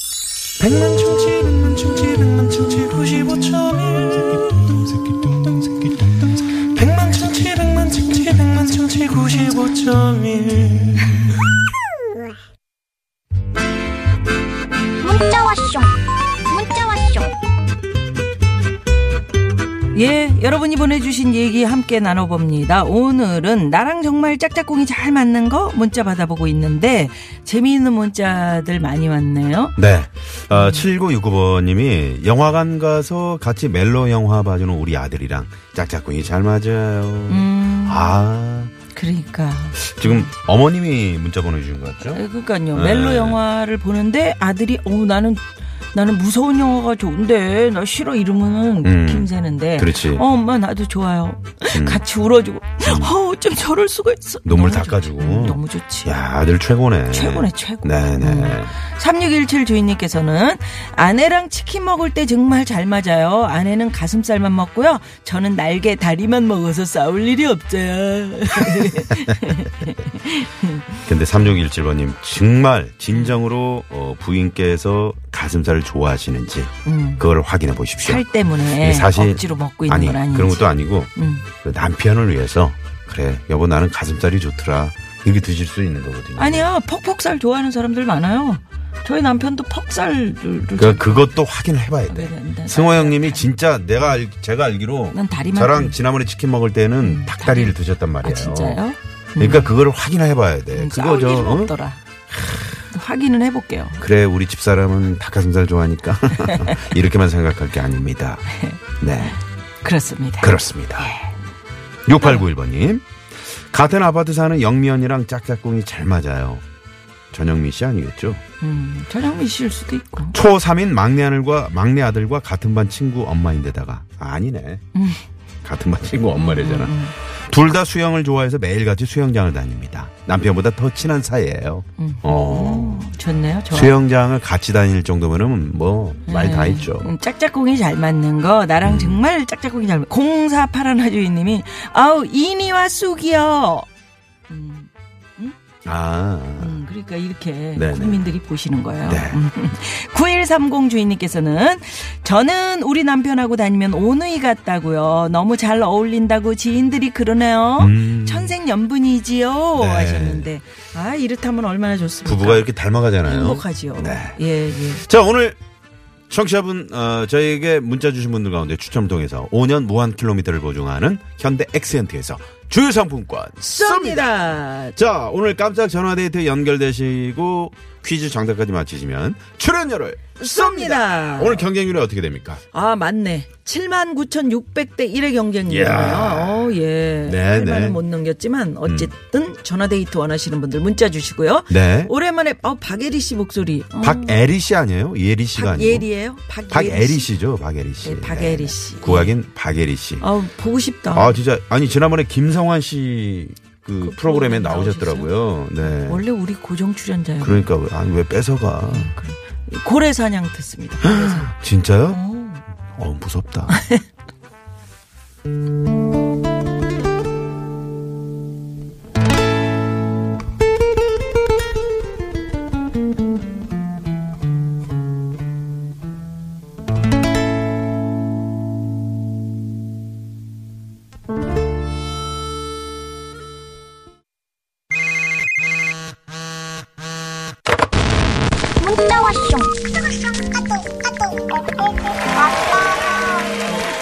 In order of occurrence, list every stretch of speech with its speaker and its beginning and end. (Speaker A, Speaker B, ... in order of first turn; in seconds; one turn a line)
Speaker A: 0.6-1.7
Speaker B: 1.5-4.4
Speaker B: 6.8-10.8
Speaker C: 15.0-15.9
Speaker C: 16.5-17.4
Speaker D: 19.9-29.8
Speaker A: 29.8-38.7
Speaker D: 30.5-30.9
Speaker D: 37.3-38.1
Speaker D: 38.9-40.3
Speaker A: 39.8-42.2
Speaker D: 42.0-56.1
Speaker A: 42.7-43.4
Speaker A: 48.8-50.2
Speaker A: 51.8-52.0
Speaker A: 52.8-53.1
Speaker A: 54.5-58.8
Speaker D: 57.1-71.1
Speaker A: 68.7-69.7
Speaker A: 71.1-81.1
Speaker D: 73.1-73.4
Speaker D: 76.8-77.3
Speaker D: 78.0-81.5
Speaker A: 81.6-86.7
Speaker D: 86.4-91.3
Speaker A: 90.8-98.8
Speaker D: 92.1-93.5
Speaker D: 95.1-96.0
Speaker D: 97.0-99.7
Speaker A: 99.4-101.7
Speaker D: 100.7-102.0
Speaker D: 102.7-104.0
Speaker A: 104.0-108.5
Speaker D: 106.4-106.8
Speaker D: 108.5-108.8
Speaker A: 109.0-109.4
Speaker D: 109.8-111.3
Speaker A: 110.4-111.1
Speaker A: 112.1-116.6
Speaker D: 112.2-112.5
Speaker A: 117.3-118.4
Speaker D: 118.6-120.4
Speaker A: 120.3-124.8
Speaker D: 124.9-125.2
Speaker A: 125.6-127.0
Speaker D: 126.4-127.2
Speaker A: 127.5-133.1
Speaker D: 132.0-134.0
Speaker A: 133.7-137.2
Speaker D: 136.3-143.9
Speaker A: 138.8-139.2
Speaker D: 144.5-145.6
Speaker A: 145.8-146.8
Speaker D: 146.6-162.7
Speaker A: 147.8-148.3
Speaker A: 149.1-149.4
Speaker A: 157.8-158.6
Speaker A: 159.8-160.5
Speaker A: 162.2-165.6
Speaker D: 163.2-165.0
Speaker A: 166.3-182.6
Speaker D: 173.6-175.0
Speaker D: 180.4-181.7
Speaker D: 182.7-194.4
Speaker A: 185.7-188.0
Speaker A: 188.8-189.1
Speaker A: 191.7-192.1
Speaker A: 194.0-196.1
Speaker D: 195.6-197.3
Speaker A: 196.7-200.3
Speaker D: 198.0-199.3
Speaker D: 200.2-201.4
Speaker A: 201.1-206.2
Speaker D: 204.0-205.3
Speaker D: 205.8-207.7
Speaker A: 207.4-209.1
Speaker D: 208.9-211.5
Speaker A: 211.0-212.2
Speaker D: 212.1-212.7
Speaker A: 212.9-213.8
Speaker D: 213.7-214.0
Speaker C: 238.8-239.7
Speaker C: 241.3-241.6
Speaker C: 242.4-243.4